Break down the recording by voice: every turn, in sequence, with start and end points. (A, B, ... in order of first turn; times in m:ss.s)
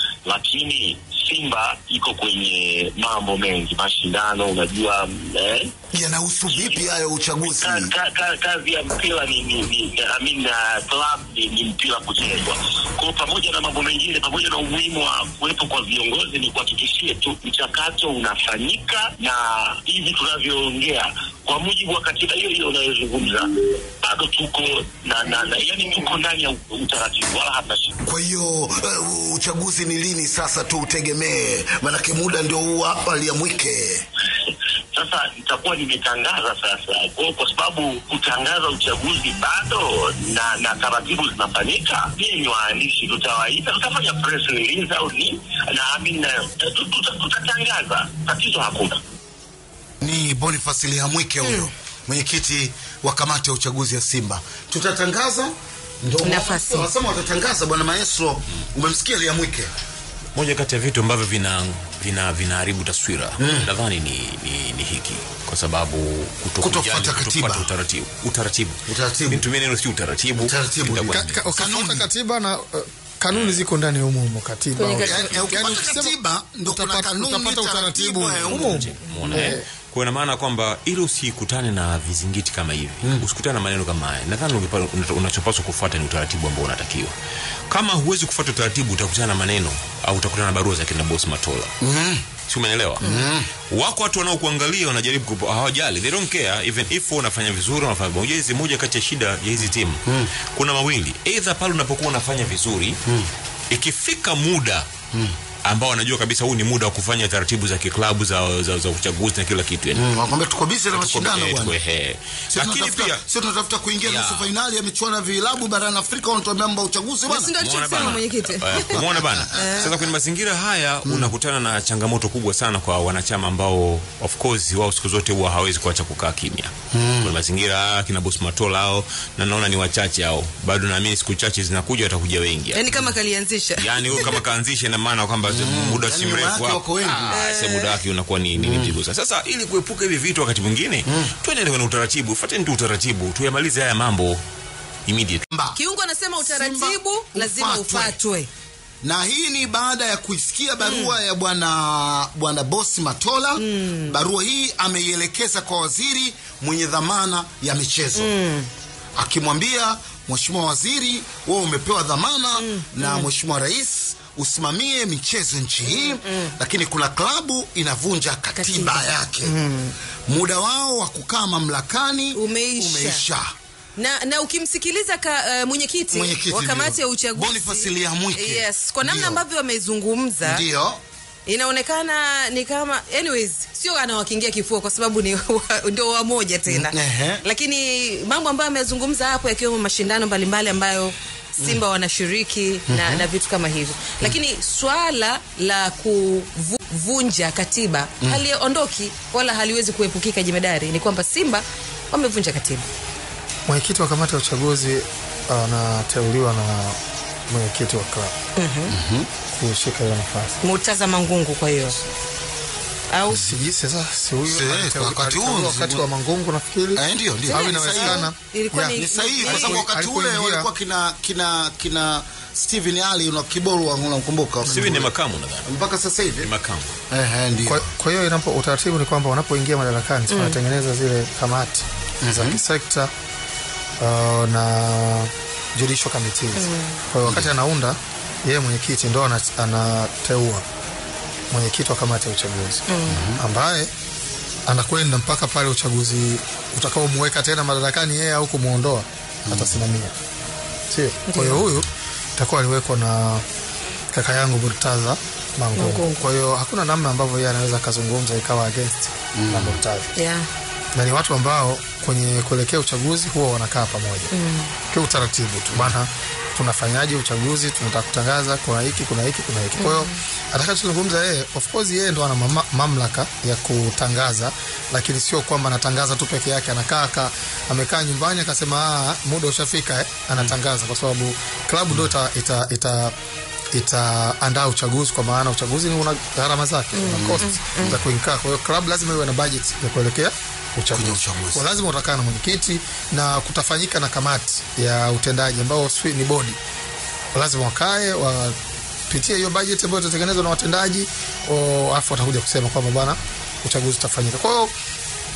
0:00.2-0:05.7 A
0:05.9-0:07.9 B
0:06.5-0:23.5 A
0:24.0-0:27.9 A
0:28.0-0:34.0 B
0:34.9-0:49.0 A
0:50.0-0:59.7 B
0:56.2-0:56.9 C
1:00.4-1:11.6 D
1:03.4-1:03.7 B
1:06.6-1:07.7 B
1:08.9-1:09.5 B
1:10.4-1:12.1 B
1:11.1-1:19.6 E
1:13.3-1:13.6 D
1:14.8-1:15.4 C
1:15.0-1:18.8 B
1:18.4-1:27.1 D
1:27.7-1:31.7 D
1:31.8-1:32.3 B
1:32.4-1:43.0 D
1:33.0-1:33.5 B
1:40.1-1:40.3 B
1:43.7-1:44.9 D
1:45.6-1:50.1 D
1:49.9-1:51.8 B
1:50.9-1:53.2 D
1:52.5-1:58.2 B
1:54.0-1:54.6 D
1:57.3-1:59.0 C
1:57.6-2:13.1 D
1:58.9-2:00.1 B
1:59.6-1:59.9 C
2:01.0-2:01.3 B
2:06.9-2:07.4 B
2:12.7-2:14.0 C
2:13.8-2:24.4 D
2:14.1-2:14.4 B
2:15.5-2:17.3 B
2:17.3-2:18.0 C
2:18.6-2:19.0 B
2:21.1-2:21.3 B
2:25.1-2:25.4 D
2:25.5-2:25.8 B
2:25.8-2:28.5 C
2:26.4-2:28.2 B
2:29.0-2:38.3 B
2:30.8-2:31.2 C
2:33.6-2:34.2 C
2:38.2-2:38.7 C
2:39.2-2:49.5 B
2:42.6-2:43.3 C
2:45.8-2:46.5 C
2:48.6-2:50.0 C
2:50.3-2:53.4 B
2:52.3-2:53.2 C
2:54.0-3:00.6 C
2:56.1-2:59.4 B
3:00.4-3:01.0 B
3:01.5-3:22.9 C
3:06.7-3:07.4 B
3:12.9-3:13.3 B
3:23.7-3:27.0 E
3:27.5-3:28.4 E
3:28.6-3:28.9 C
3:28.9-3:29.3 B
3:29.5-3:30.6 E
3:30.6-3:32.0 C
3:33.1-3:33.6 C
3:33.3-3:40.7 E
3:34.5-3:36.0 B
3:37.0-3:38.2 B
3:37.5-3:39.8 C
3:39.0-3:45.1 B
3:44.6-3:45.7 D
3:45.6-3:46.5 B
3:46.4-3:47.0 D
3:47.1-3:47.8 B
3:47.6-3:53.1 E
3:50.3-3:50.6 C
3:52.2-3:52.6 B
3:54.0-4:00.6 E
3:56.6-3:57.0 C
4:01.5-4:02.8 E
4:02.9-4:03.2 C
4:03.1-4:03.4 B
4:03.4-4:03.9 E
4:04.7-4:10.2 E
4:09.5-4:09.8 B
4:10.9-4:13.4 E
4:11.3-4:11.6 C
4:14.1-4:20.1 E
4:15.8-4:16.3 C
4:19.4-4:19.8 B
4:20.2-4:20.5 C
4:21.0-4:24.3 E
4:24.3-4:24.7 C
4:24.9-4:43.1 E
4:29.8-4:30.2 C
4:43.7-4:56.6 E
4:46.9-4:48.0 C
4:47.1-4:48.0 B
4:50.9-4:51.7 B
4:57.3-4:58.6 E
4:59.1-5:04.7 E